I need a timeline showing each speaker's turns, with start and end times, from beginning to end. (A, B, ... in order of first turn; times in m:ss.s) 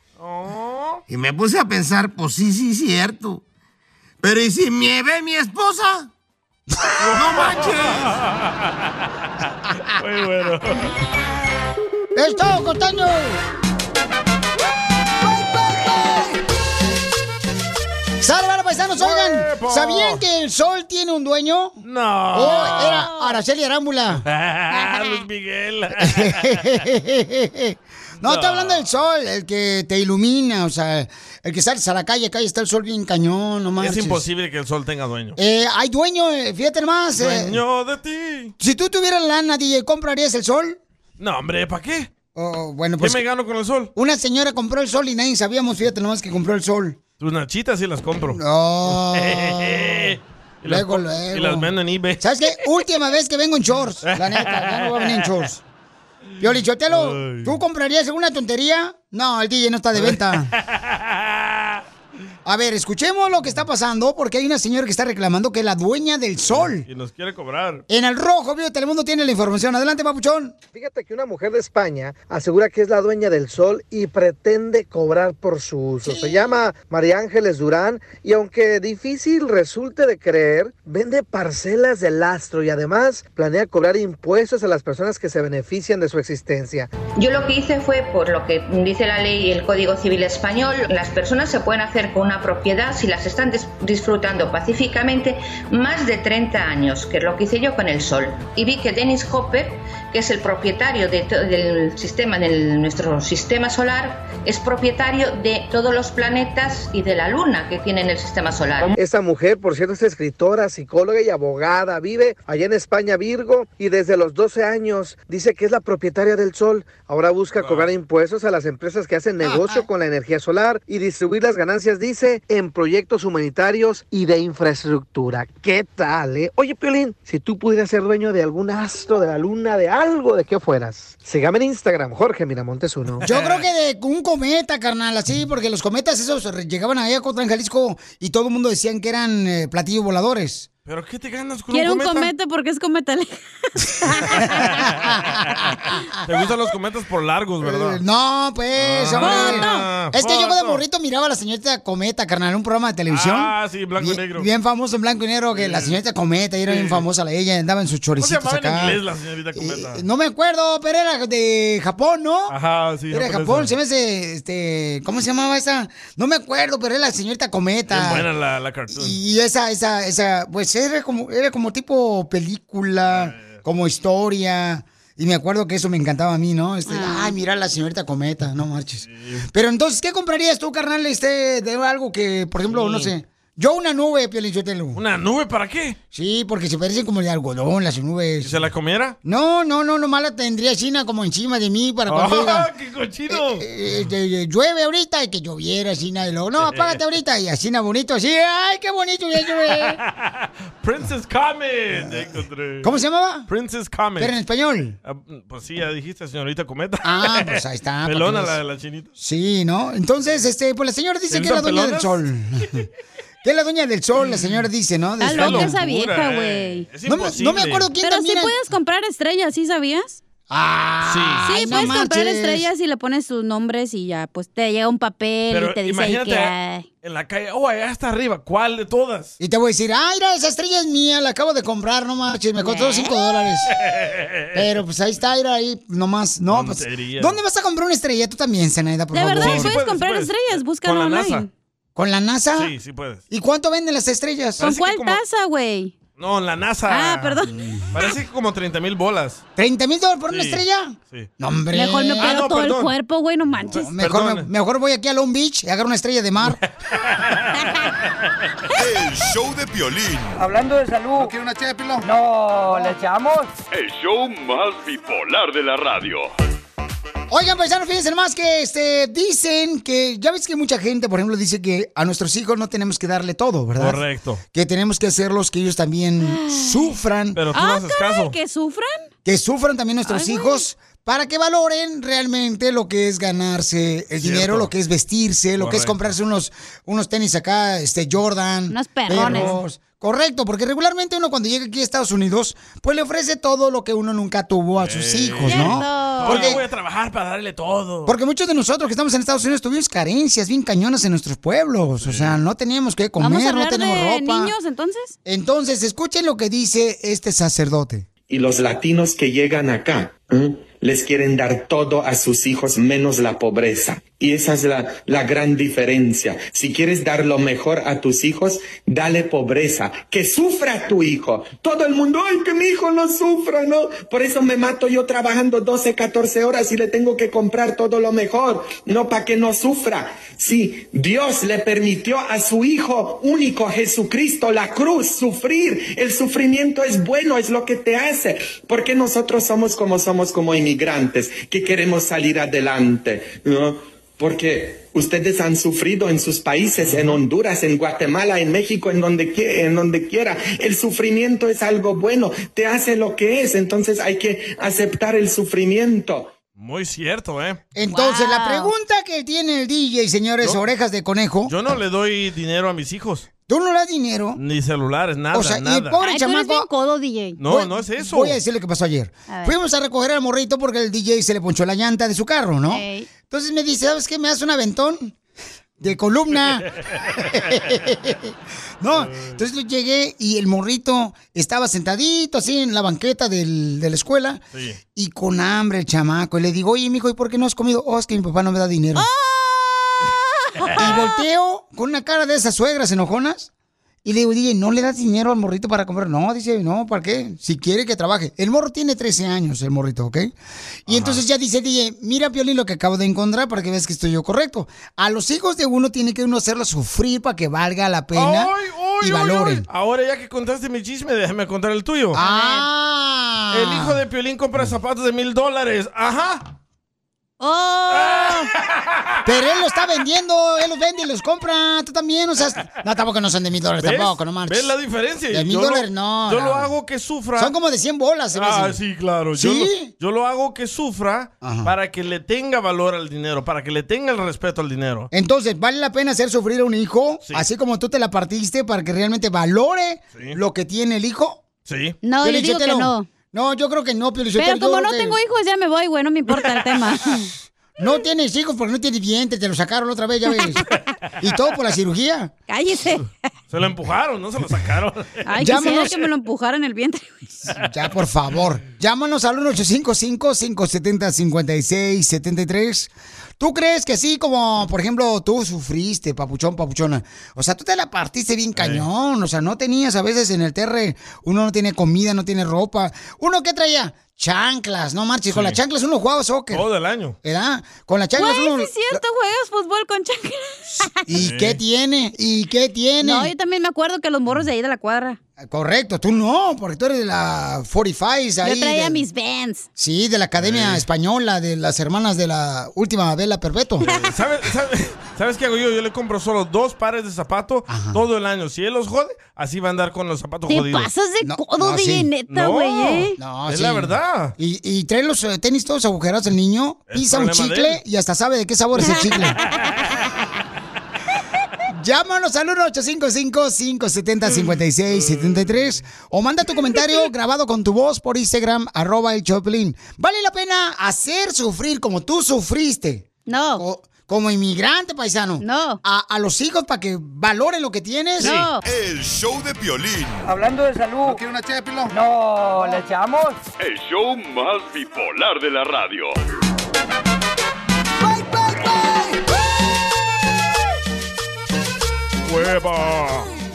0:00.2-0:01.0 A
0:01.1-0:03.4 B
0:04.2-0:06.1 B
0:07.0-0:08.8 A
0:07.1-0:08.1 B
0:09.8-0:10.8 A
0:12.2-0:13.4 C
0:18.2-0:21.8 C
0:19.0-0:20.2 A
0:21.8-0:23.1 A
0:22.3-0:24.2 C
0:22.4-0:23.4 D
0:24.2-0:26.8 A
0:24.7-0:25.0 D
0:26.0-0:34.2 C
0:28.2-0:28.9 A
0:33.8-0:35.4 A
0:35.4-0:37.6 C
0:37.2-0:38.5 A
0:38.6-0:40.8 C
0:41.2-0:42.1 A
0:42.4-0:43.2 C
0:43.0-0:43.9 A
0:44.0-0:47.0 C
0:47.2-0:52.3 A
0:48.3-0:55.6 C
0:54.0-0:55.3 A
0:56.4-1:00.5 C
0:56.9-0:57.6 A
1:00.0-1:01.8 A
1:02.4-1:06.8 C
1:06.5-1:07.8 A
1:07.9-1:10.6 C
1:10.7-1:26.9 E
1:16.0-1:16.6 C
1:27.1-1:49.0 F
1:49.0-2:13.2 E
1:57.6-1:57.9 A
1:59.4-1:59.8 C
2:13.2-2:13.6 A
2:13.2-2:20.7 C
2:20.9-2:22.3 A
2:21.7-2:24.6 D
2:24.6-2:25.7 A
2:26.2-2:28.0 A
2:27.6-2:39.0 C
2:28.8-2:30.8 A
2:29.2-2:29.9 D
2:33.1-2:34.5 A
2:35.5-2:36.0 A
2:36.7-2:37.0 A
2:38.2-2:40.0 A
2:39.6-2:42.6 C
2:42.5-2:43.7 A
2:43.1-2:48.3 C
2:47.9-2:49.2 A
2:48.9-3:05.0 C
2:53.1-2:53.6 A
2:56.9-2:57.4 D
2:59.1-2:59.5 A
3:02.7-3:03.1 A
3:05.0-3:06.0 A
3:06.1-3:08.6 C
3:08.4-3:09.2 A
3:09.2-3:12.7 C
3:12.1-3:13.7 A
3:13.3-3:20.0 C
3:16.6-3:17.0 A
3:19.8-3:22.9 A
3:22.8-3:23.5 C
3:23.5-3:24.4 A
3:24.2-3:25.0 C
3:25.0-3:29.1 A
3:27.0-3:28.6 C
3:29.2-3:32.9 C
3:31.3-3:32.2 A
3:33.4-3:35.8 C
3:34.2-3:34.6 A
3:35.2-3:36.9 D
3:35.3-3:37.9 A
3:37.1-3:38.6 C
3:38.0-3:40.2 D
3:40.5-3:42.7 C
3:41.0-3:42.0 A
3:41.4-3:46.9 D
3:45.5-3:49.3 A
3:49.4-3:53.7 C
3:52.6-3:53.1 D
3:53.7-3:54.6 A
3:54.5-3:59.8 C
3:56.5-3:57.4 A
3:59.1-4:01.5 D
3:59.3-4:01.5 A
4:02.0-4:02.7 C
4:02.6-4:03.2 A
4:03.3-4:04.6 C
4:04.6-4:05.2 A
4:04.6-4:05.9 D
4:06.2-4:09.4 A
4:06.9-4:07.5 D
4:07.5-4:07.9 C
4:09.6-4:12.4 C
4:10.3-4:11.3 A
4:11.7-4:13.9 D
4:12.2-4:12.9 A
4:13.7-4:16.6 C
4:13.7-4:14.5 A
4:16.4-4:17.6 A
4:18.7-4:20.4 G
4:20.4-4:21.4 H
4:22.0-4:23.5 H
4:23.7-4:26.3 I
4:27.3-4:34.0 C
4:33.8-4:34.4 A
4:34.5-4:37.4 C
4:36.2-4:36.9 D
4:37.4-4:38.4 A
4:37.5-4:39.1 D
4:39.2-4:56.6 C
4:40.1-4:40.6 D
4:44.2-4:44.7 A
4:45.6-4:46.0 A
4:48.7-4:49.5 D
4:49.1-4:49.6 A
4:54.8-4:58.1 A
4:55.4-4:56.6 D
4:58.1-5:04.5 C
5:02.0-5:02.4 A
5:03.2-5:05.2 D
5:05.2-5:08.1 C
5:08.3-5:56.3 J
5:46.8-5:47.2 A
5:56.6-5:57.6 A
5:57.8-6:01.5 C
5:57.9-5:58.7 D
6:01.5-6:03.3 A
6:03.5-6:04.4 C
6:04.4-6:06.0 A
6:05.3-6:06.7 C
6:06.0-6:07.4 D
6:07.4-6:08.4 A
6:07.5-6:15.2 C
6:09.3-6:09.6 D
6:12.7-6:13.1 D
6:15.8-6:24.4 C
6:19.0-6:19.4 A
6:25.0-6:29.1 C
6:29.0-6:31.1 D
6:30.8-6:33.5 C
6:34.0-6:40.3 C
6:40.9-6:49.7 C
6:40.9-6:41.2 A
6:48.1-6:52.2 A
6:52.1-6:54.0 C
6:52.2-6:52.7 D
6:53.5-6:56.5 A
6:57.4-6:58.5 D
6:57.9-6:59.1 A
6:59.2-7:04.7 C
7:03.8-7:07.5 A
7:05.3-7:06.7 C
7:07.4-7:08.8 C
7:08.3-7:15.1 A
7:09.4-7:09.9 C
7:11.4-7:11.7 C
7:15.1-7:21.4 C
7:21.7-7:22.0 A
7:22.0-7:23.1 D
7:22.2-7:25.2 C
7:24.4-7:27.2 D
7:27.8-7:30.6 C
7:31.2-7:32.3 C
7:32.5-7:33.1 D
7:33.5-7:35.2 A
7:35.3-7:37.2 D
7:35.4-7:36.0 C
7:37.5-7:56.6 C
7:48.6-7:48.8 A
7:55.3-7:55.6 A
7:56.5-7:57.2 A
7:57.2-7:59.0 C
7:58.2-8:00.9 D
8:00.9-8:03.3 C
8:01.1-8:01.6 A
8:03.0-8:05.2 D
8:05.4-8:09.0 C
8:08.4-8:09.7 D
8:09.8-8:13.9 C
8:10.4-8:10.8 A
8:13.9-8:20.9 A
8:17.7-8:18.0 C
8:20.5-8:23.2 D
8:21.2-8:22.1 C
8:22.3-8:24.3 A
8:23.2-8:29.4 C
8:26.9-8:27.8 A
8:31.7-8:48.4 C
8:34.3-8:35.8 A
8:43.3-8:43.6 D
8:45.4-8:45.8 D
8:48.2-8:48.6 D
8:48.2-8:48.5 A
8:48.6-8:50.3 G
8:50.2-8:51.2 H
8:51.9-8:53.4 H
8:53.6-8:56.2 I
9:02.3-9:03.3 A